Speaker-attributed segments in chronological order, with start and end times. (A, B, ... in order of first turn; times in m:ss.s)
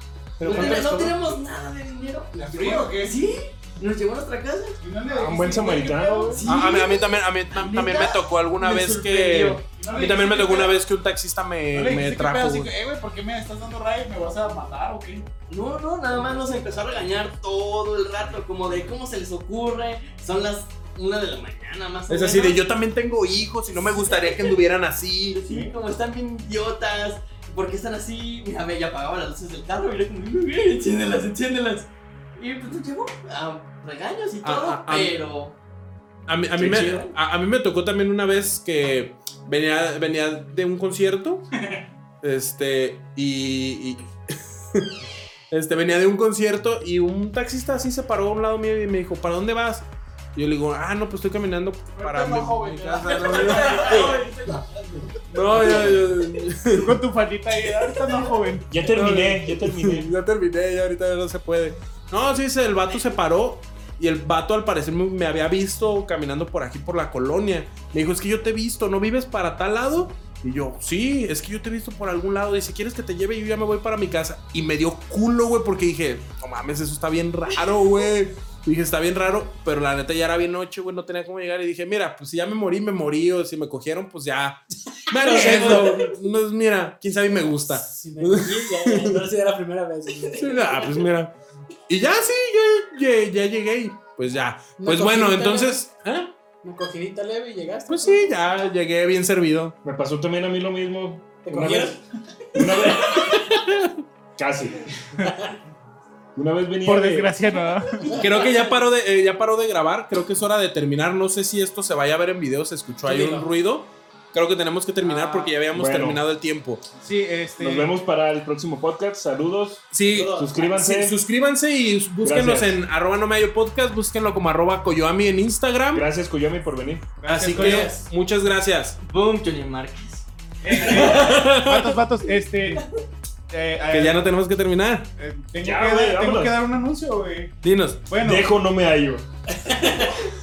0:00.4-0:01.2 A
0:00.4-0:04.8 B
0:00.4-0:00.8 C
0:02.3-0:03.2 C
0:04.8-0:06.5 C
0:05.1-0:06.4 A
0:06.3-0:09.6 B
0:06.4-0:12.7 D
0:09.8-0:10.8 C
0:11.7-0:15.3 C
0:15.5-0:22.6 B
0:22.1-0:25.4 D
0:23.7-0:24.6 B
0:25.3-0:35.6 B
0:34.4-0:35.2 D
0:36.3-0:41.5 D
0:36.6-0:37.2 B
0:42.2-0:44.1 D
0:45.5-0:54.2 D
0:52.0-0:54.2 C
0:53.1-0:55.9 B
0:55.3-0:57.0 D
0:56.7-0:58.8 C
0:58.7-1:00.1 A
0:58.9-1:29.2 D
1:25.1-1:26.2 E
1:27.5-1:31.0 E
1:30.3-1:31.3 D
1:31.9-1:36.3 D
1:34.8-1:35.8 E
1:36.6-1:38.3 E
1:37.9-1:39.8 D
1:39.8-1:42.0 A
1:41.4-1:42.0 E
1:42.5-1:43.6 E
1:42.5-1:43.4 A
1:43.4-1:43.9 D
1:44.4-1:44.9 A
1:45.2-1:45.6 E
1:46.4-1:47.3 A
1:46.9-1:48.2 C
1:48.0-1:48.6 E
1:48.1-1:56.8 D
1:53.0-1:53.5 E
1:55.0-1:55.6 C
1:55.7-1:56.2 A
1:57.0-1:57.9 C
1:57.6-2:01.2 A
1:59.9-2:06.1 D
2:00.0-2:00.9 E
2:02.2-2:02.8 A
2:05.9-2:07.1 A
2:07.2-2:08.1 C
2:07.3-2:09.0 D
2:07.5-2:08.0 E
2:09.0-2:11.5 B
2:10.6-2:12.8 C
2:10.9-2:12.0 D
2:13.5-2:14.3 C
2:13.9-2:15.1 D
2:15.2-2:17.6 C
2:15.6-2:16.6 A
2:17.6-2:18.0 D
2:18.1-2:18.5 C
2:18.2-2:19.3 A
2:19.7-2:20.2 B
2:19.7-2:20.1 E